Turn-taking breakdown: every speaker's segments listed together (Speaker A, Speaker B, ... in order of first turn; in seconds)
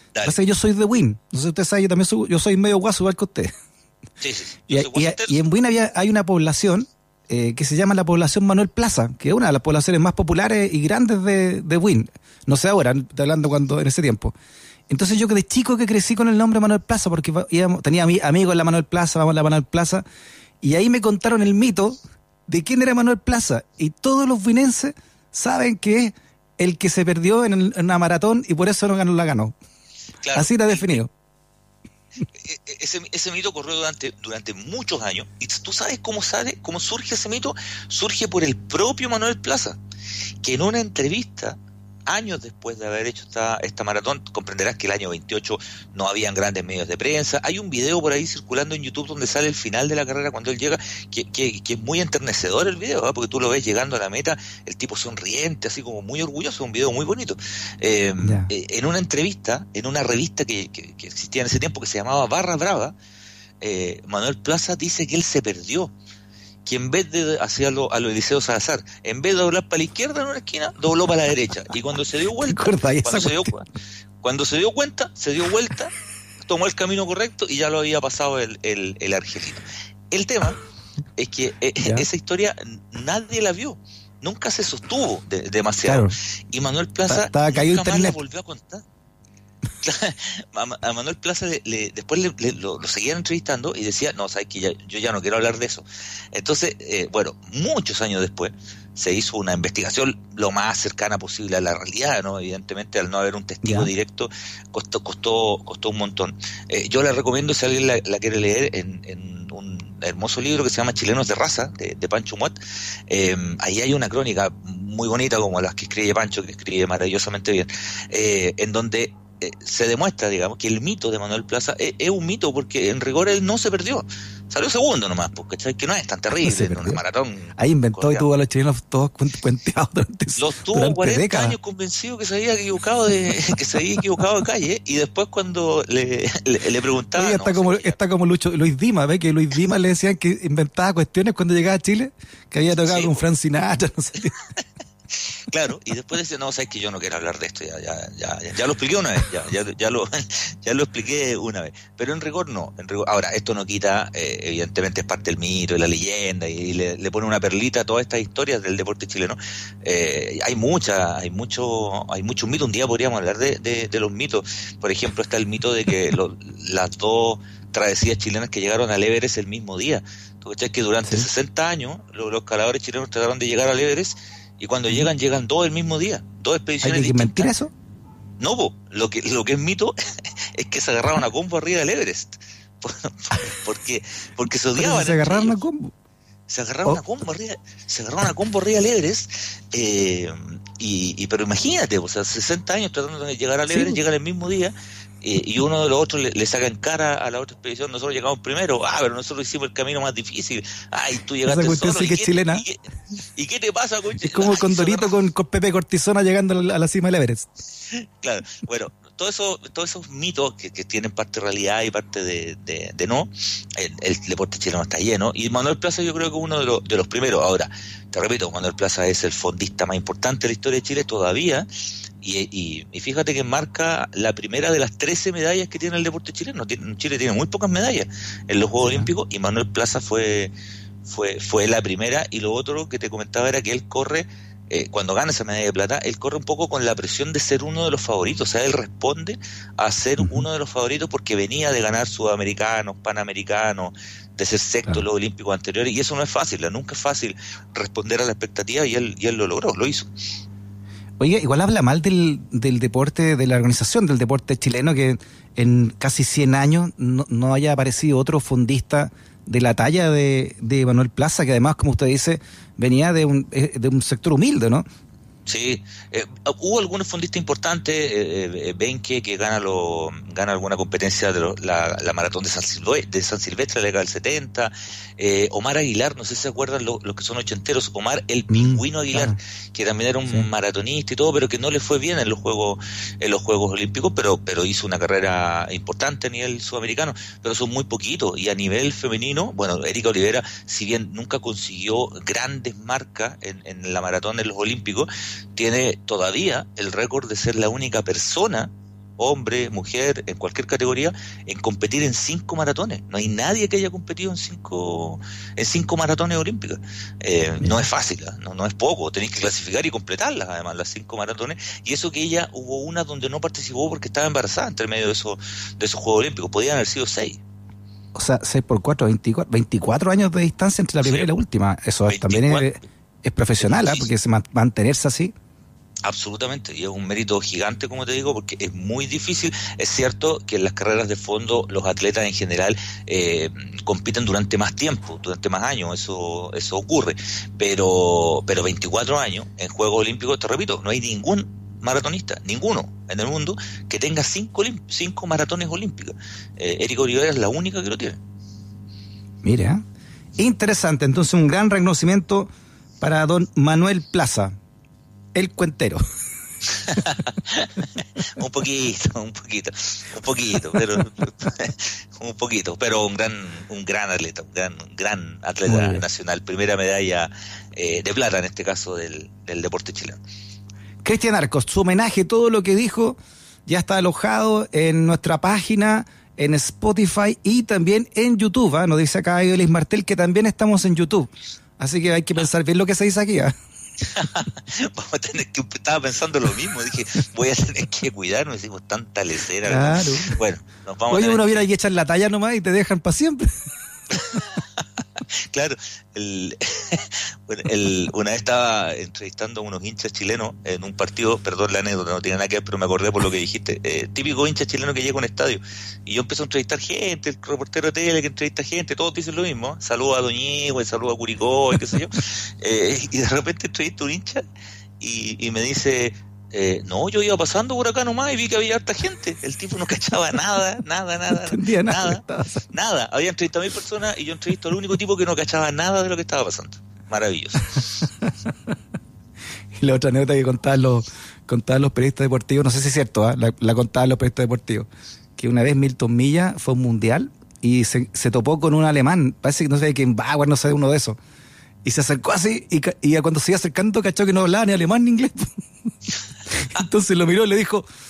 Speaker A: 0.1-0.4, 4.2-5.4, 30.2-31.0, 32.4-39.8, 40.4-63.0, 63.6-65.9, 66.7-73.7, 74.2-75.9, 76.4-80.6, 81.2-88.8, 89.8-128.2, 130.4-138.0, 142.8-143.2, 145.5-177.5, 178.4-179.9, 180.5-185.6, 186.5-202.8, 203.3-205.2, 207.9-221.7, 222.2-230.5, 231.1-250.1, 265.5-317.4, 321.0-321.3, 322.1-322.7, 323.6-324.1, 326.1-348.2, 356.8-370.2, 384.1-391.7, 394.1-394.5, 395.4-414.4, 415.0-427.9
Speaker B: 0.3-3.5, 4.7-14.3, 14.9-20.1, 20.6-29.6, 30.3-31.1, 58.2-58.5, 72.4-73.5, 81.8-82.1, 85.8-86.1, 87.1-88.2, 103.6-103.9, 126.4-127.0, 127.6-131.6, 137.2-144.3, 176.8-177.7, 184.8-185.9, 193.7-194.0, 201.5-202.7, 204.2-207.5, 228.8-229.1, 251.2-264.9, 278.5-279.4, 318.1-325.3, 349.4-349.8, 350.4-354.6, 355.3-356.1, 365.7-366.0, 371.0-383.6, 389.6-390.4, 391.1-393.6, 421.3-422.7, 428.2-428.5, 429.8-441.2, 441.8-445.6, 446.5-447.9